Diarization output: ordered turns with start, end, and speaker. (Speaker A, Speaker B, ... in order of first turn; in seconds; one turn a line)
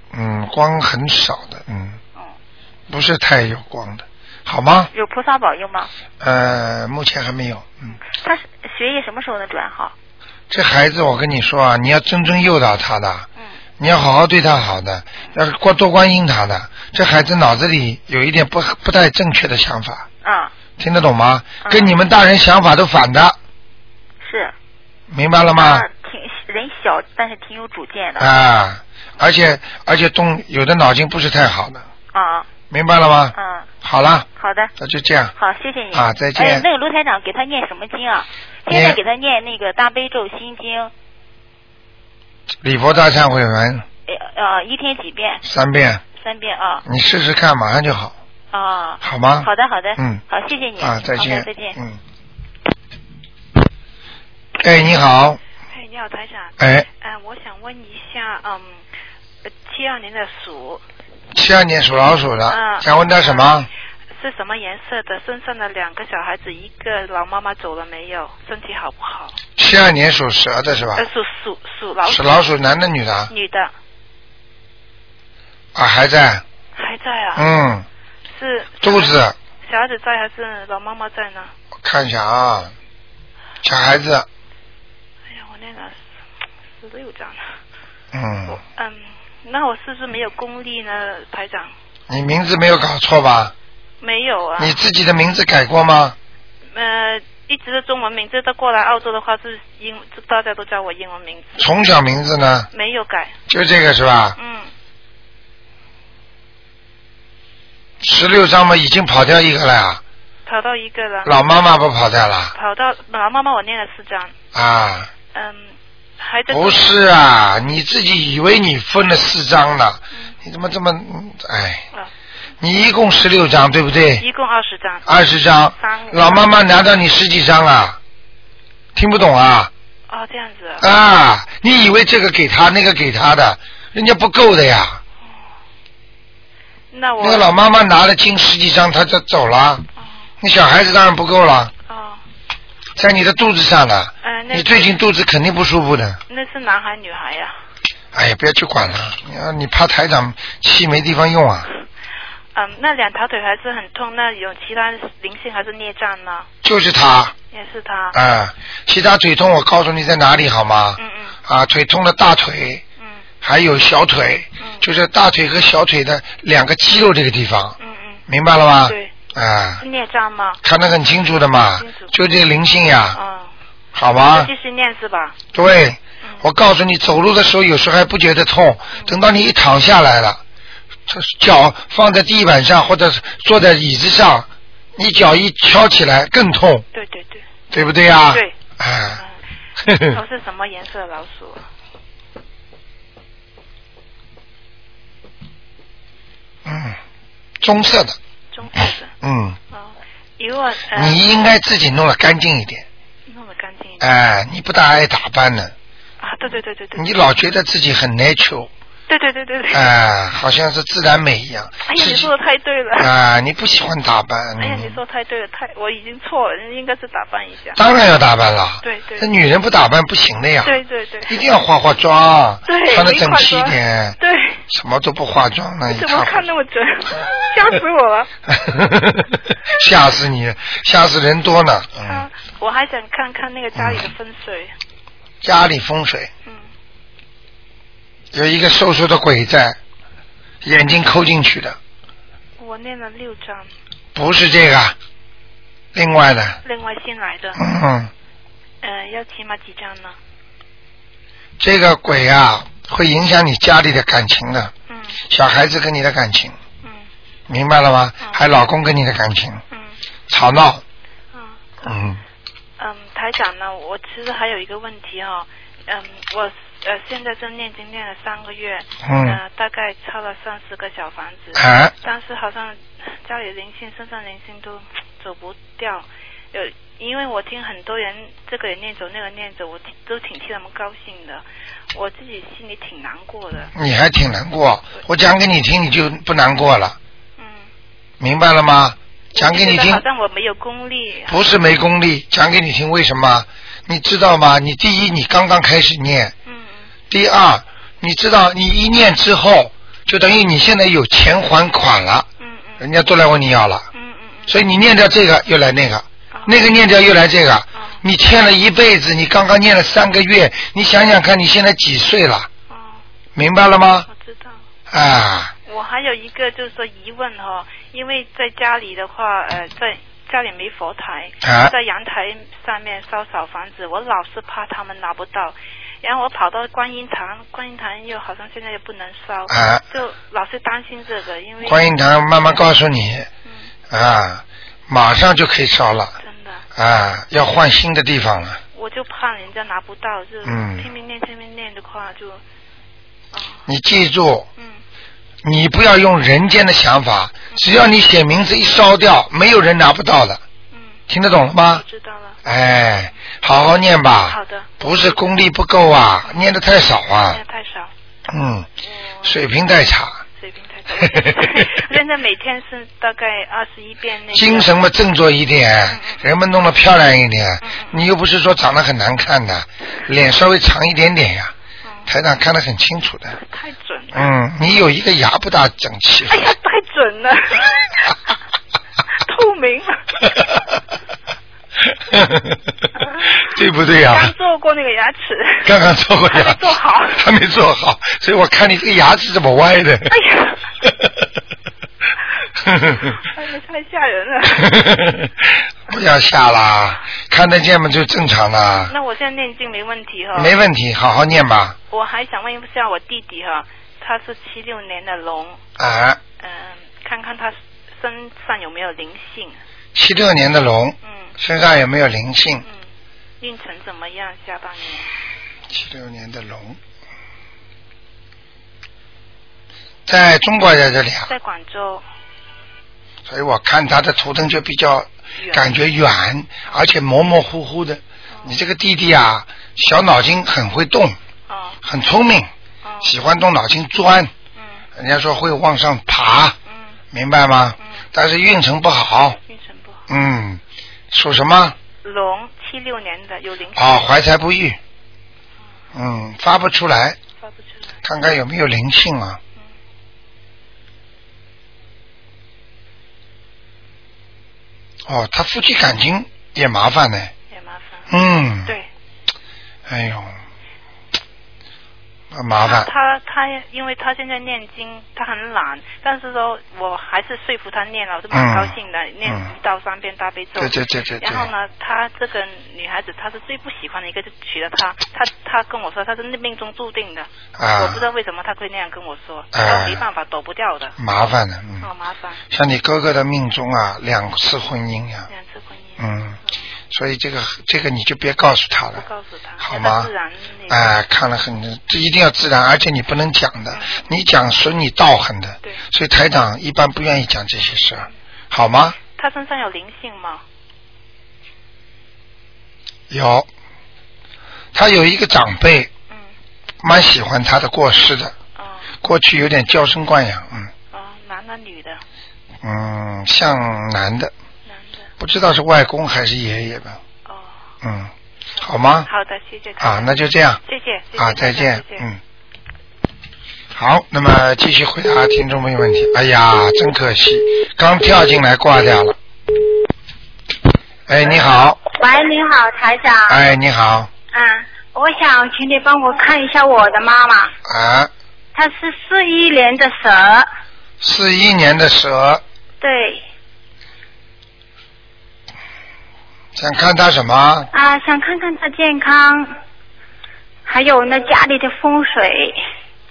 Speaker A: 0.1-2.0
Speaker A: 2.9-4.9
Speaker B: 4.9-5.9
Speaker A: 6.2-8.0
Speaker B: 7.9-9.9
Speaker A: 10.5-13.3
Speaker A: 13.8-20.1
Speaker B: 20.2-20.5
Speaker A: 20.8-23.4
Speaker B: 21.6-21.9
Speaker B: 24.2-24.5
Speaker A: 25.1-25.9
Speaker B: 25.5-28.3
Speaker A: 28.2-31.9
Speaker B: 32.1-32.5
Speaker A: 32.7-34.2
Speaker B: 33.3-33.7
Speaker B: 34.4-34.7
Speaker A: 34.8-35.3
Speaker B: 35.4-40.9
Speaker A: 35.9-36.7
Speaker A: 38.7-39.0
Speaker A: 42.6-43.9
Speaker B: 44.1-45.4
Speaker A: 45.4-46.0
Speaker B: 46.2-46.8
Speaker A: 46.8-48.1
Speaker B: 48.5-51.8
Speaker A: 49.0-50.2
Speaker A: 50.8-52.0
Speaker A: 54.6-55.4
Speaker C: 55.7-58.8
Speaker A: 56.6-56.9
Speaker C: 59.5-60.8
Speaker A: 61.3-63.7
Speaker C: 62.5-63.6
Speaker C: 64.1-69.4
Speaker A: 69.6-71.0
Speaker C: 71.0-72.4
Speaker A: 72.0-73.3
Speaker C: 73.3-73.7
Speaker A: 75.7-76.4
Speaker C: 76.8-77.4
Speaker A: 77.3-77.8
Speaker C: 78.3-81.5
Speaker A: 78.8-79.3
Speaker A: 81.8-82.7
Speaker A: 83.6-84.3
Speaker C: 85.3-86.0
Speaker C: 86.8-87.6
Speaker A: 88.1-88.6
Speaker C: 88.5-91.7
Speaker A: 92.1-93.5
Speaker C: 94.0-94.8
Speaker A: 94.6-96.2
Speaker C: 96.7-101.7
Speaker A: 101.6-102.7
Speaker C: 102.7-103.3
Speaker A: 103.5-104.3
Speaker C: 104.4-104.7
Speaker A: 108.0-110.0
Speaker C: 110.5-111.4
Speaker A: 111.2-112.5
Speaker C: 112.5-114.3
Speaker A: 114.5-115.1
Speaker C: 115.3-116.9
Speaker A: 116.5-121.8
Speaker A: 122.6-124.2
Speaker C: 124.2-125.2
Speaker A: 125.0-128.0
Speaker C: 125.8-126.5
Speaker A: 128.9-129.7
Speaker C: 130.1-130.9
Speaker A: 130.8-135.0
Speaker C: 136.9-137.5
Speaker A: 137.2-139.8
Speaker A: 140.4-141.7
Speaker C: 141.9-142.2
Speaker A: 142.9-146.2
Speaker C: 144.2-145.0
Speaker C: 146.3-147.5
Speaker A: 148.1-151.7
Speaker C: 152.5-156.5
Speaker A: 156.6-157.3
Speaker C: 157.5-158.2
Speaker A: 158.1-162.8
Speaker C: 161.0-161.4
Speaker A: 163.4-167.8
Speaker C: 164.6-164.8
Speaker C: 167.8-168.2
Speaker A: 168.3-169.8
Speaker C: 168.8-169.1
Speaker C: 169.8-170.6
Speaker A: 170.6-173.2
Speaker C: 171.6-172.1
Speaker C: 173.1-173.5
Speaker A: 173.9-174.5
Speaker C: 174.3-175.4
Speaker A: 175.5-180.4
Speaker A: 181.1-186.8
Speaker C: 186.9-187.4
Speaker A: 187.7-189.2
Speaker A: 189.8-190.2
Speaker C: 190.1-191.7
Speaker A: 196.6-197.0
Speaker A: 197.6-198.2
Speaker C: 198.5-199.1
Speaker A: 199.2-199.6
Speaker C: 199.7-201.2
Speaker A: 200.9-202.8
Speaker C: 203.3-204.1
Speaker A: 204.0-205.7
Speaker C: 206.2-207.3
Speaker A: 206.9-208.7
Speaker C: 209.1-209.8
Speaker A: 209.7-212.3
Speaker C: 211.9-213.1
Speaker A: 213.0-215.0
Speaker C: 214.6-217.8
Speaker A: 217.8-226.5
Speaker C: 218.8-219.3
Speaker C: 220.6-221.4
Speaker C: 222.7-224.6
Speaker C: 225.9-228.3
Speaker A: 228.5-232.2
Speaker C: 232.0-234.7
Speaker A: 233.8-234.1
Speaker A: 235.4-236.3
Speaker A: 238.3-239.8
Speaker A: 240.6-241.8
Speaker C: 242.6-243.7
Speaker A: 244.1-244.9
Speaker A: 245.9-246.6
Speaker C: 246.6-247.6
Speaker A: 247.6-248.1
Speaker C: 248.8-250.2
Speaker A: 251.6-254.7
Speaker C: 254.9-255.2
Speaker A: 255.3-256.5
Speaker A: 257.5-259.6
Speaker C: 258.2-258.5
Speaker C: 259.7-260.0
Speaker A: 260.3-260.8
Speaker C: 261.3-261.7
Speaker A: 261.8-262.2
Speaker C: 262.8-283.7
Speaker A: 269.0-269.4
Speaker A: 271.5-271.9
Speaker A: 283.7-287.0
Speaker C: 287.4-287.7
Speaker A: 288.2-290.0
Speaker C: 289.3-291.4
Speaker A: 291.3-296.3
Speaker C: 296.4-296.9
Speaker A: 297.1-302.3
Speaker C: 302.4-302.8
Speaker A: 302.8-303.9
Speaker C: 303.9-304.6
Speaker A: 304.5-312.5
Speaker C: 306.3-306.6
Speaker C: 307.8-308.0
Speaker C: 312.7-313.0
Speaker A: 313.4-314.1
Speaker C: 314.1-314.6
Speaker A: 314.9-315.5
Speaker C: 315.7-331.9
Speaker A: 321.4-321.7
Speaker A: 329.5-329.8
Speaker A: 331.6-333.3
Speaker C: 333.4-333.7
Speaker A: 333.9-336.1
Speaker C: 336.2-336.6
Speaker A: 336.8-338.6
Speaker C: 338.7-342.4
Speaker A: 340.4-340.9
Speaker C: 343.3-343.6
Speaker A: 343.6-344.5
Speaker A: 345.4-350.4
Speaker C: 350.7-351.0
Speaker A: 351.1-351.8
Speaker C: 351.7-352.4
Speaker A: 352.4-357.4
Speaker C: 354.3-355.3
Speaker C: 357.2-357.9
Speaker A: 358.3-358.7
Speaker C: 358.9-359.4
Speaker A: 359.2-360.2
Speaker C: 360.4-364.7
Speaker A: 360.9-361.7
Speaker A: 364.3-371.5
Speaker C: 365.9-366.2
Speaker C: 367.6-368.0
Speaker C: 371.8-372.1
Speaker A: 372.1-373.4
Speaker C: 373.4-374.3
Speaker A: 374.1-376.5
Speaker C: 376.3-378.1
Speaker C: 379.2-380.5
Speaker A: 381.8-384.3
Speaker C: 383.0-385.7
Speaker A: 385.6-386.6
Speaker C: 386.3-387.2
Speaker A: 387.1-390.1
Speaker C: 390.1-390.6
Speaker A: 390.8-391.1
Speaker A: 392.6-393.2
Speaker C: 393.0-394.9
Speaker A: 394.6-398.9
Speaker C: 398.9-400.6
Speaker A: 400.3-401.8
Speaker C: 401.9-405.6
Speaker A: 405.8-406.2
Speaker C: 406.4-409.6
Speaker A: 409.9-412.6
Speaker C: 411.0-411.3
Speaker C: 413.4-415.1
Speaker A: 415.7-416.8
Speaker A: 420.1-421.3
Speaker C: 421.3-422.0
Speaker A: 423.3-431.2
Speaker C: 425.4-425.7
Speaker C: 431.5-431.8
Speaker A: 431.8-432.5
Speaker C: 432.8-433.1
Speaker A: 433.0-434.3
Speaker C: 434.6-434.8
Speaker A: 434.9-436.6
Speaker C: 436.7-437.0
Speaker A: 437.1-439.4
Speaker C: 439.5-440.0
Speaker A: 440.1-441.8
Speaker C: 442.0-444.0
Speaker A: 443.8-444.8
Speaker A: 445.9-447.2
Speaker C: 447.4-447.9
Speaker A: 448.0-449.4
Speaker A: 455.1-457.3
Speaker C: 457.5-458.1
Speaker A: 458.1-458.7
Speaker A: 459.9-460.4
Speaker A: 462.3-462.9
Speaker C: 462.6-480.9
Speaker A: 468.3-468.7
Speaker A: 469.2-469.5
Speaker A: 470.6-471.5
Speaker A: 477.6-478.0
Speaker A: 479.5-480.0
Speaker A: 481.0-481.9
Speaker C: 481.8-482.4
Speaker A: 482.5-485.3
Speaker C: 485.3-486.6
Speaker A: 486.0-486.4
Speaker A: 486.9-489.0
Speaker C: 488.9-490.9
Speaker A: 489.6-490.1
Speaker A: 490.7-499.0
Speaker C: 493.7-494.0
Speaker C: 499.1-500.4
Speaker A: 503.1-503.5
Speaker A: 504.7-505.9
Speaker A: 506.8-508.3
Speaker C: 508.6-508.9
Speaker A: 509.0-510.7
Speaker C: 510.9-512.0
Speaker A: 512.6-514.3
Speaker C: 514.6-515.1
Speaker A: 515.2-517.0
Speaker C: 517.2-517.5
Speaker A: 517.8-519.1
Speaker C: 519.0-520.1
Speaker A: 519.8-520.6
Speaker C: 520.6-522.0
Speaker A: 521.2-522.2
Speaker A: 523.7-529.1
Speaker A: 531.1-531.8
Speaker D: 531.9-533.4
Speaker A: 533.3-534.1
Speaker D: 534.3-537.5
Speaker A: 537.6-538.1
Speaker D: 538.5-540.5
Speaker A: 541.0-542.4
Speaker D: 542.8-543.2
Speaker A: 546.5-547.7
Speaker D: 547.7-549.5
Speaker D: 550.6-552.6